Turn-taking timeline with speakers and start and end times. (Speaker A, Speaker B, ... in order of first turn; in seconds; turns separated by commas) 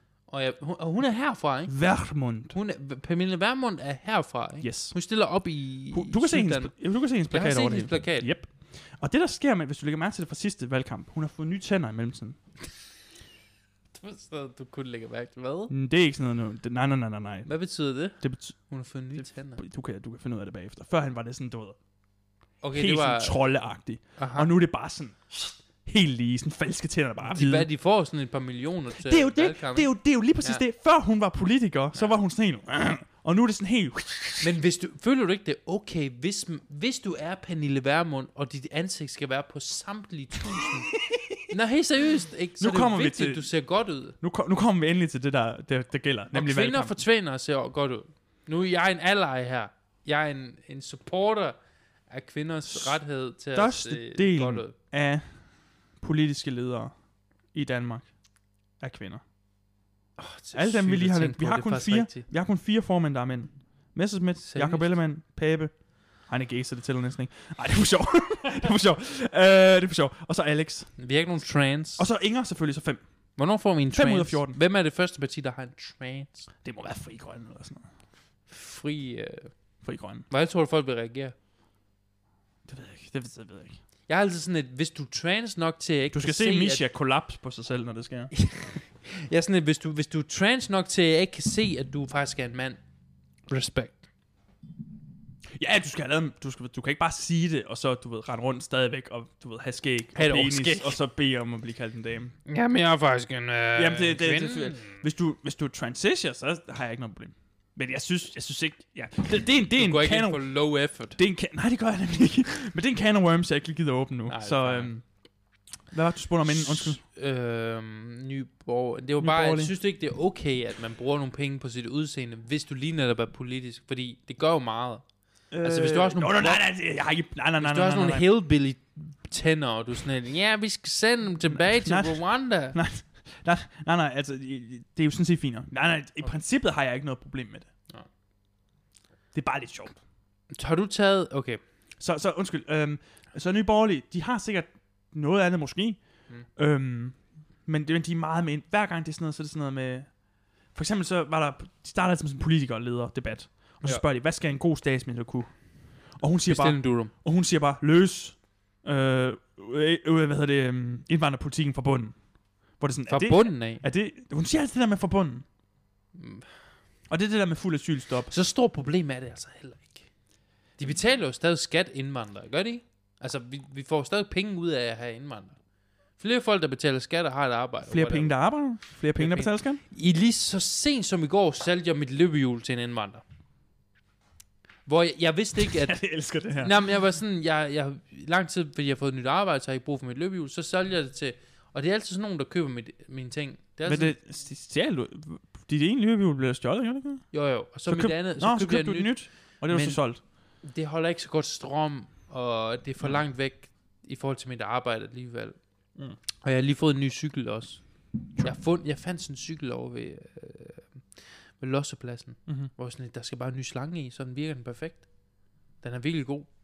Speaker A: 0.3-1.9, Speaker B: 1.7-2.6, Speaker A: 2.5-8.3, Speaker B: 4.6-5.0, Speaker B: 5.9-12.4, Speaker A: 13.9-15.7, Speaker B: 15.7-17.5, Speaker A: 17.4-19.6, Speaker B: 18.2-21.8, Speaker A: 22.6-23.4, Speaker B: 22.7-27.7, Speaker A: 24.2-24.5, Speaker A: 27.2-30.6, Speaker B: 29.0-34.5, Speaker A: 34.4-40.9, Speaker B: 41.1-41.4, Speaker A: 41.5-44.2, Speaker B: 42.6-43.5, Speaker B: 44.2-47.0, Speaker A: 46.3-51.6, Speaker A: 52.1-54.7, Speaker B: 53.5-57.0, Speaker B: 57.5-59.2, Speaker A: 60.2-62.3, Speaker B: 60.5-71.0, Speaker A: 64.4-65.0, Speaker A: 71.0-72.1, Speaker B: 72.0-73.0, Speaker A: 73.4-76.5, Speaker B: 73.9-74.6, Speaker B: 76.6-77.9, Speaker A: 78.5-79.5, Speaker B: 79.8-80.3, Speaker A: 80.3-81.3, Speaker B: 82.7-83.8, Speaker A: 84.1-86.8, Speaker B: 86.1-88.3, Speaker A: 88.3-92.8, Speaker A: 93.5-94.0, Speaker B: 95.6-102.3, Speaker A: 100.2-101.0, Speaker A: 102.5-105.0, Speaker B: 103.7-110.5, Speaker A: 109.8-111.2, Speaker B: 111.2-117.0, Speaker A: 114.3-114.9, Speaker A: 116.5-125.1, Speaker B: 119.2-119.7, Speaker B: 125.5-128.3, Speaker A: 125.6-126.7, Speaker A: 127.6-132.8, Speaker B: 131.5-137.7, Speaker B: 139.3-140.0, Speaker A: 140.5-141.6, Speaker B: 142.0-150.2, Speaker B: 150.7-165.5, Speaker A: 156.4-157.1, Speaker A: 163.1-163.8, Speaker A: 166.2-166.5, Speaker B: 167.1-168.3, Speaker A: 168.3-170.1, Speaker A: 170.8-175.6, Speaker A: 176.2-178.4, Speaker B: 177.9-179.8, Speaker A: 179.2-183.2, Speaker A: 184.9-194.2, Speaker B: 185.7-186.7, Speaker B: 193.8-197.3, Speaker A: 197.3-200.0, Speaker B: 197.9-200.2, Speaker A: 200.6-205.6, Speaker A: 206.4-215.1, Speaker A: 215.8-216.5